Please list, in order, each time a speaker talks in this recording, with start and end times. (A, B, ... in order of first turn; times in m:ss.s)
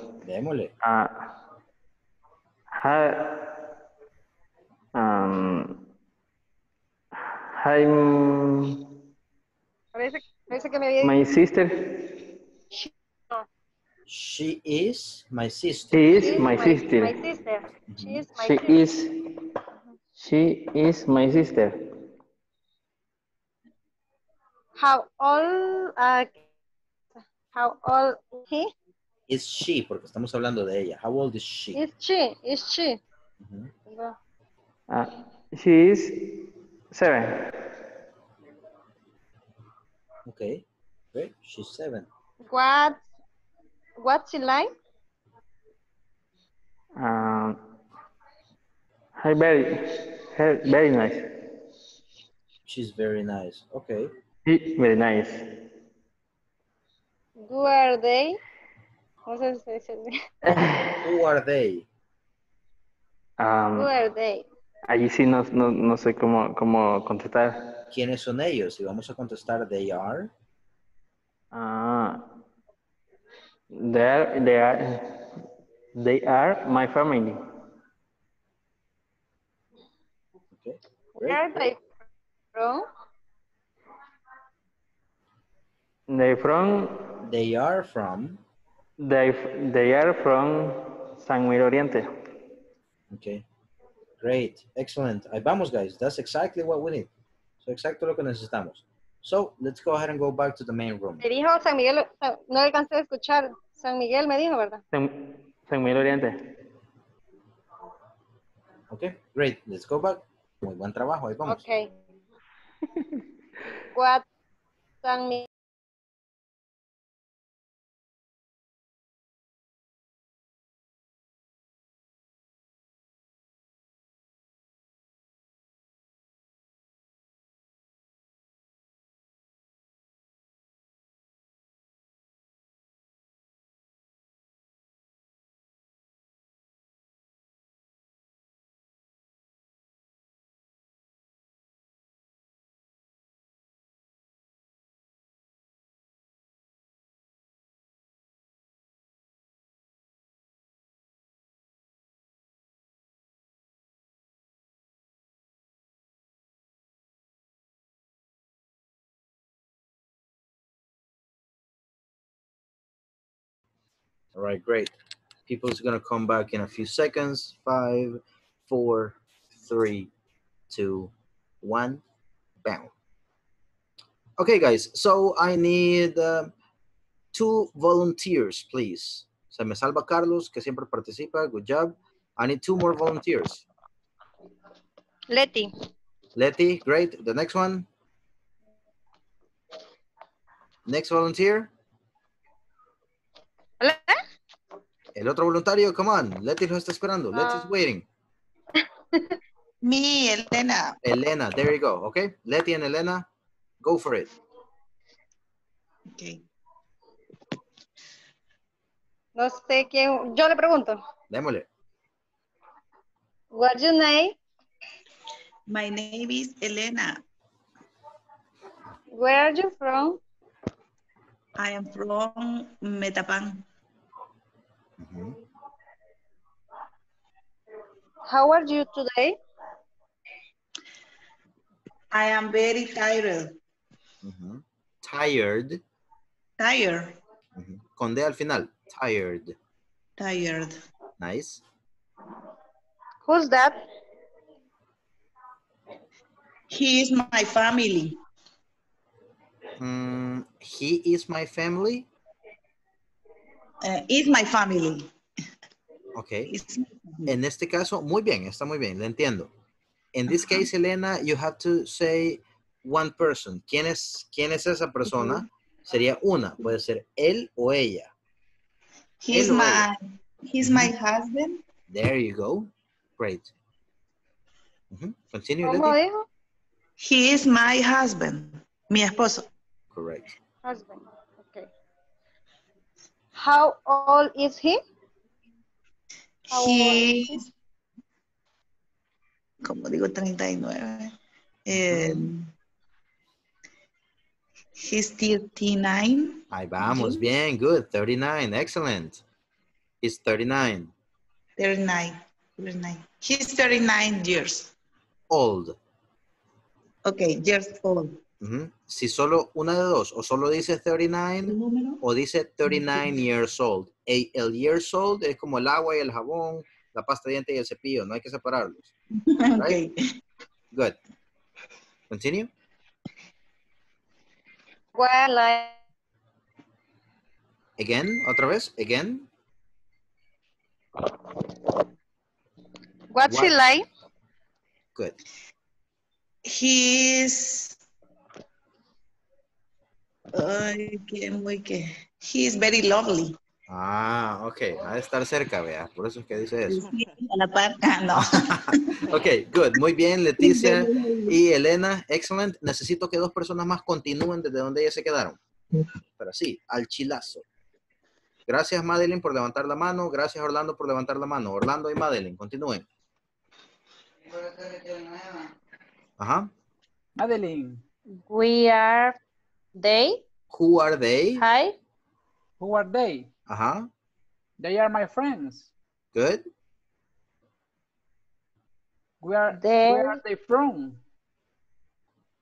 0:00.2-0:00.7 A
0:00.8-0:01.1 B
0:02.8-0:03.3 B
0:05.0-0:05.8 B
0:07.6-0:08.8 B
0:10.0-0:11.3 C
0:11.0-0:11.7 B
0:12.8-0:13.4 C
0:14.1-0:16.2 A
0:15.9-0:17.2 B
0:16.1-0:18.8 C
0:17.9-0:18.3 A
0:18.3-0:19.1 B
0:20.2-0:21.7 B
0:24.8-0:26.4 C
0:27.2-0:28.7 C
0:29.3-0:31.8 A
0:31.7-0:33.0 C
0:33.4-0:33.7 A
0:33.9-0:34.2 C
0:34.9-0:36.2 B
0:36.9-0:37.3 B
0:40.3-0:42.1 A
0:42.5-0:43.0 C
0:44.0-0:44.7 C
0:47.0-0:47.6 B
0:49.2-0:49.7 B
0:50.3-0:51.2 B
0:52.7-0:54.1 A
0:54.5-0:55.4 B
0:57.5-0:58.4 C
0:59.3-1:00.1 C
1:00.5-1:00.9 B
1:01.0-1:01.9 A
1:03.4-1:03.9 B
1:03.8-1:04.4 C
1:04.9-1:07.6 B
1:07.9-1:10.3 A
1:11.5-1:12.2 B
1:13.8-1:15.0 B
1:16.0-1:17.4 B
1:20.5-1:21.4 A
1:21.2-1:22.0 C
1:22.6-1:22.8 C
1:26.1-1:27.0 B
1:27.2-1:28.4 A
1:29.0-1:32.1 B
1:33.1-1:33.5 A
1:34.2-1:37.1 A
1:37.6-1:41.2 A
1:41.2-1:44.8 C
1:44.9-1:46.4 B
1:48.9-1:51.6 A
1:51.5-1:51.9 C
1:53.9-1:54.2 C
1:55.0-1:55.5 C
2:44.4-2:44.9 A
2:45.5-2:50.1 A
2:50.7-2:51.1 A
2:51.6-2:52.0 A
2:52.6-2:52.9 A
2:54.4-2:56.5 A
2:57.3-3:03.6 A
3:05.3-3:05.7 C
3:06.4-3:07.9 A
3:10.9-3:11.7 A
3:13.8-3:14.2 C
3:15.1-3:18.1 A
3:17.3-3:17.7 C
3:18.8-3:19.3 C
3:19.8-3:21.0 D
3:21.0-3:23.3 A
3:23.8-3:24.3 A
3:26.1-3:26.4 D
3:29.4-3:31.0 C
3:31.3-3:31.7 A
3:33.5-3:34.4 C
3:35.7-3:37.2 D
3:39.1-3:40.2 C
3:41.6-3:43.6 D
3:45.0-3:45.4 A
3:48.3-3:49.4 C
3:52.1-3:53.6 D
3:54.2-3:55.8 A
3:56.6-3:57.2 D
3:57.6-3:59.6 A
4:00.2-4:00.8 D
4:01.2-4:01.6 A
4:03.3-4:03.9 C
4:06.7-4:08.2 D
4:09.8-4:12.1 A
4:13.8-4:15.1 D
4:16.1-4:16.6 A
4:16.5-4:17.3 D
4:17.3-4:19.5 A
4:20.1-4:28.1 A
4:20.3-4:20.6 D
4:25.1-4:25.4 D
4:29.2-4:31.6 D
4:29.3-4:29.9 A
4:30.6-4:30.9 A
4:31.9-4:33.5 A
4:34.9-4:36.0 A
4:35.6-4:36.3 C
4:37.0-4:39.5 D
4:39.9-4:40.3 A
4:40.6-4:41.7 C
4:43.4-4:44.8 C
4:46.5-4:47.4 D
4:46.5-4:47.4 C
4:49.6-4:51.1 D
4:51.7-4:52.5 D
4:51.7-4:52.3 A
4:54.8-4:57.2 D
4:56.5-4:59.2 A
5:00.0-5:00.9 A
5:01.6-5:04.7 D
5:05.3-5:05.8 A
5:07.0-5:08.2 D
5:08.4-5:18.9 A
5:11.5-5:12.0 D
5:12.7-5:13.2 D
5:19.2-5:19.9 D
5:20.7-5:21.0 A
5:22.1-5:22.5 A
5:25.0-5:25.8 C
5:27.8-5:29.3 A
5:33.1-5:33.8 C
5:33.2-5:33.7 A
5:36.5-5:37.8 D
5:40.3-5:43.4 D
5:43.7-5:46.8 A
5:46.7-5:49.0 D
5:48.2-5:55.4 A
5:50.4-5:51.4 D
5:56.2-5:57.4 A
5:58.5-6:02.9 A
6:04.4-6:05.2 D
6:06.2-6:06.5 A
6:07.2-6:07.8 E
6:08.2-6:09.2 F
6:09.8-6:10.2 F
6:10.5-6:11.4 A
6:11.4-6:11.7 F
6:12.6-6:13.3 E
6:13.5-6:13.9 A
6:14.6-6:15.7 E
6:16.1-6:16.4 A
6:19.2-6:21.0 E
6:19.5-6:20.2 F